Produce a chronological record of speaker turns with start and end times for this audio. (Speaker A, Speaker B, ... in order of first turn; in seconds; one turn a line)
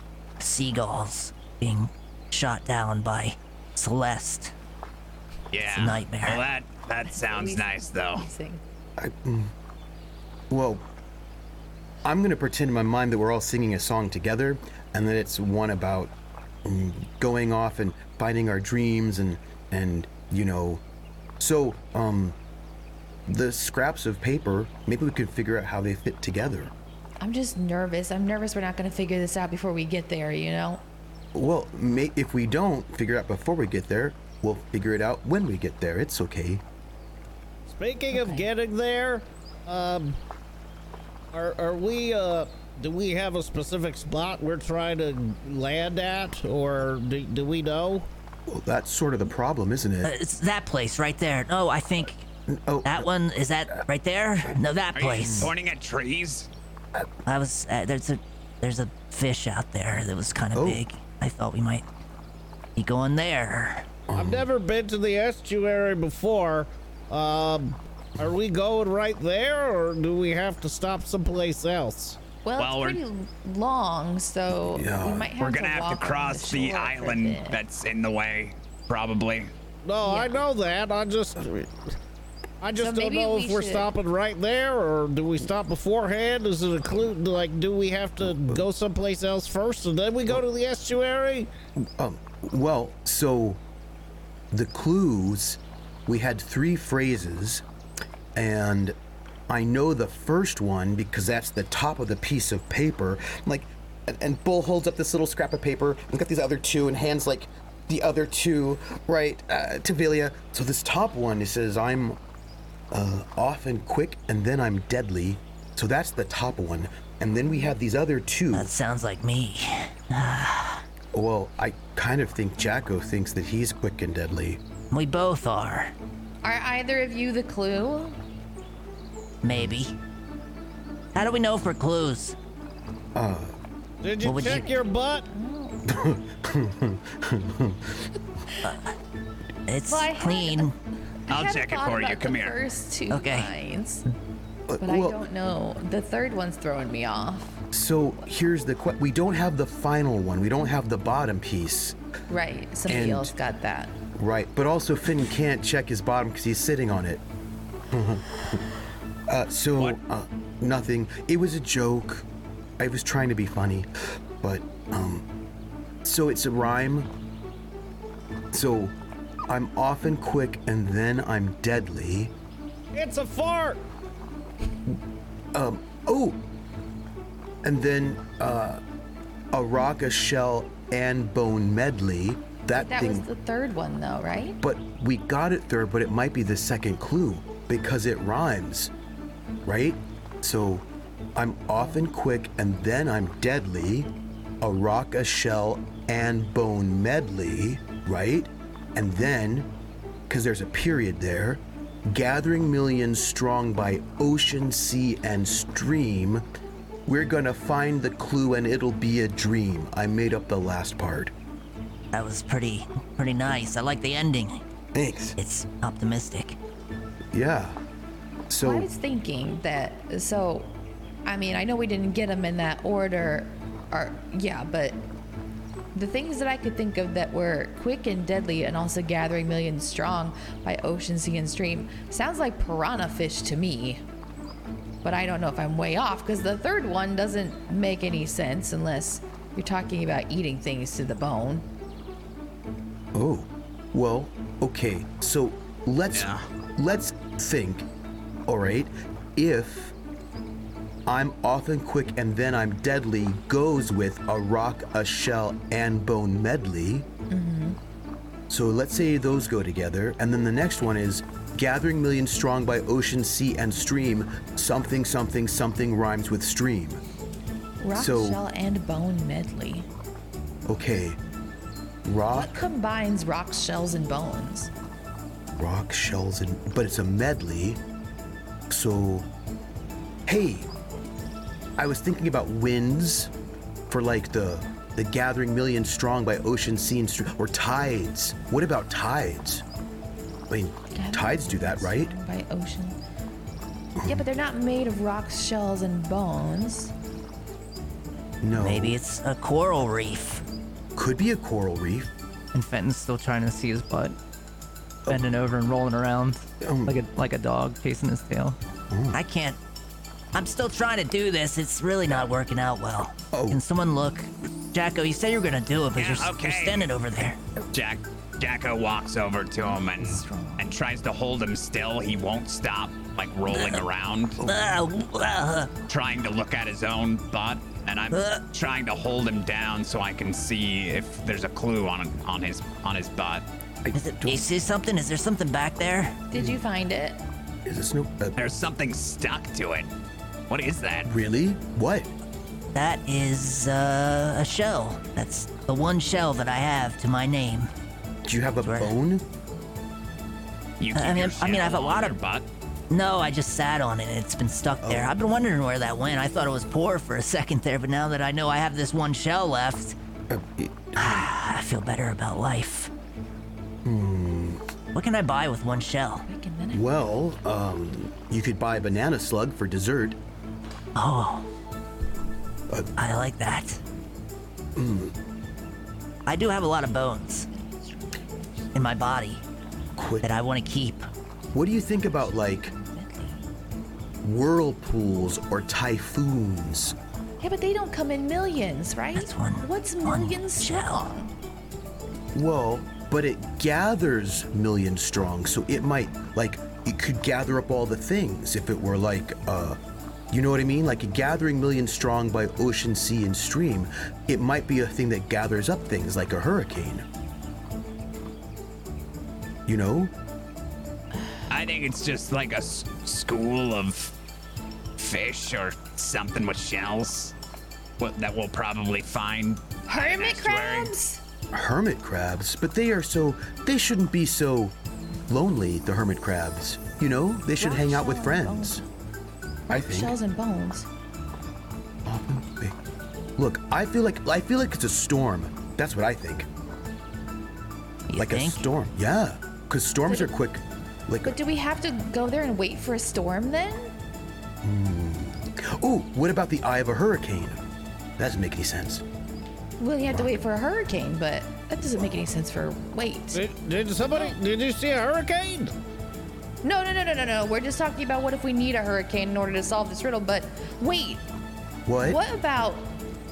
Speaker A: 0.4-4.5
Speaker B: 5.5-8.2
Speaker A: 5.6-6.4
Speaker C: 7.0-8.6
Speaker D: 9.0-9.5
Speaker D: 10.5-10.8
Speaker D: 12.0-16.1
Speaker D: 16.6-20.8
Speaker D: 21.4-22.4
Speaker D: 23.2-26.7
Speaker C: 27.2-30.8
Speaker D: 31.3-36.6
Speaker E: 37.7-40.2
Speaker C: 38.1-38.5
Speaker E: 41.3-48.1
Speaker D: 48.5-50.1
Speaker A: 50.0-52.2
Speaker D: 52.5-53.1
Speaker A: 52.8-55.5
Speaker B: 54.9-56.5
Speaker D: 55.1-55.5
Speaker A: 57.2-61.8
Speaker D: 60.5-60.8
Speaker A: 62.8-64.0
Speaker D: 64.1-64.5
Speaker E: 64.2-72.2
Speaker C: 72.4-77.6
Speaker B: 72.6-73.0
Speaker D: 74.7-75.3
Speaker B: 75.4-79.5
Speaker E: 79.8-81.9
Speaker C: 80.0-80.4
Speaker E: 82.6-91.5
Speaker C: 82.7-83.9
Speaker D: 88.2-88.7
Speaker D: 91.8-93.6
Speaker D: 94.5-97.6
Speaker D: 98.3-99.0
Speaker D: 99.5-112.2
Speaker D: 112.9-118.7
Speaker A: 118.5-120.8
Speaker D: 121.1-124.6
Speaker A: 124.9-125.9
Speaker C: 126.4-128.2
Speaker A: 129.4-129.9
Speaker A: 131.1-132.3
Speaker D: 133.1-133.5
Speaker E: 134.0-135.3
Speaker A: 134.2-134.7
Speaker C: 134.4-135.8
Speaker D: 135.8-138.1
Speaker A: 138.6-138.9
Speaker A: 139.7-140.8
Speaker C: 139.9-140.7
Speaker C: 141.3-144.0
Speaker B: 141.3-142.6
Speaker A: 143.1-143.5
Speaker D: 144.7-145.2
Speaker C: 144.8-147.6
Speaker D: 147.7-151.9
Speaker C: 152.3-153.9
Speaker D: 152.9-153.3
Speaker D: 154.2-157.2
Speaker D: 157.9-158.7
Speaker D: 159.3-162.2
Speaker D: 162.8-163.9
Speaker D: 164.4-165.2
Speaker D: 166.0-167.1
Speaker D: 168.5-168.9
Speaker D: 169.5-172.3
Speaker E: 172.9-173.8
Speaker D: 175.5-176.4
Speaker D: 177.6-178.8
Speaker D: 179.5-183.3
Speaker C: 182.7-184.6
Speaker D: 184.6-188.9
Speaker D: 189.6-194.1
Speaker D: 194.6-199.7
Speaker D: 200.3-206.4
Speaker D: 207.1-211.3
Speaker A: 212.1-214.6
Speaker D: 214.9-215.3
Speaker A: 215.4-216.6
Speaker D: 217.3-217.8
Speaker D: 218.5-218.9
Speaker C: 218.6-220.7
Speaker C: 221.2-225.0
Speaker C: 225.9-234.0
Speaker C: 235.0-241.6
Speaker D: 243.1-247.9
Speaker B: 246.1-246.4
Speaker D: 248.5-249.9
Speaker D: 251.1-257.1
Speaker C: 257.3-257.8
Speaker D: 258.5-267.0
Speaker C: 267.8-269.9
Speaker D: 267.9-268.4
Speaker D: 270.6-271.2
Speaker D: 272.0-272.6
Speaker C: 272.3-274.7
Speaker D: 275.6-277.8
Speaker D: 278.7-279.3
Speaker D: 280.2-280.7
Speaker D: 281.8-283.3
Speaker D: 283.9-289.6
Speaker D: 290.5-292.1
Speaker C: 290.9-293.0
Speaker D: 294.0-294.2
Speaker C: 294.0-296.9
Speaker D: 298.4-299.0
Speaker A: 298.5-300.4
Speaker D: 300.9-302.1
Speaker F: 302.6-304.1
Speaker F: 305.1-308.6
Speaker D: 306.6-307.0
Speaker D: 308.9-309.2
Speaker A: 309.1-309.6
Speaker A: 310.3-317.4
Speaker D: 313.3-313.6
Speaker B: 315.9-317.0
Speaker B: 317.7-324.4
Speaker C: 319.6-320.8
Speaker A: 323.5-323.8
Speaker A: 324.4-325.7
Speaker B: 325.9-333.4
Speaker A: 328.1-328.4
Speaker D: 333.8-334.4
Speaker A: 333.9-336.1
Speaker C: 336.3-337.2
Speaker D: 337.6-338.5
Speaker B: 338.4-339.9
Speaker B: 340.5-341.1
Speaker D: 341.0-342.1
Speaker A: 342.7-347.7
Speaker D: 348.2-349.2
Speaker A: 348.6-348.9
Speaker B: 350.8-352.5
Speaker A: 350.9-352.2
Speaker A: 352.9-359.9
Speaker D: 354.8-355.1
Speaker D: 360.3-361.3
Speaker A: 361.0-362.9
Speaker D: 363.8-364.6
Speaker A: 364.9-366.2
Speaker C: 366.2-367.0
Speaker D: 366.7-370.2
Speaker A: 370.9-371.4
Speaker A: 373.0-373.8
Speaker D: 374.8-375.1
Speaker A: 376.2-377.5
Speaker C: 377.5-378.7
Speaker A: 378.7-379.4
Speaker D: 379.9-380.3
Speaker A: 380.2-381.1
Speaker D: 381.5-382.7
Speaker C: 382.4-383.4
Speaker D: 384.2-387.0
Speaker C: 387.4-391.3
Speaker A: 389.1-391.1
Speaker D: 392.3-399.8
Speaker D: 400.3-407.0
Speaker D: 409.7-410.1
Speaker B: 411.5-414.1
Speaker B: 415.0-417.3
Speaker B: 418.0-420.9
Speaker C: 419.9-421.2
Speaker D: 421.5-424.7
Speaker D: 425.3-428.8
Speaker C: 427.6-428.8
Speaker C: 429.7-430.9
Speaker D: 429.7-430.2
Speaker D: 432.0-432.7
Speaker D: 433.4-436.5
Speaker A: 438.1-438.6
Speaker D: 438.1-441.4
Speaker C: 441.2-443.9
Speaker D: 444.6-447.6
Speaker D: 448.2-449.0
Speaker C: 449.8-453.4
Speaker E: 453.3-455.7
Speaker C: 454.1-454.4
Speaker C: 456.6-461.2
Speaker D: 461.9-462.2
Speaker C: 462.0-462.9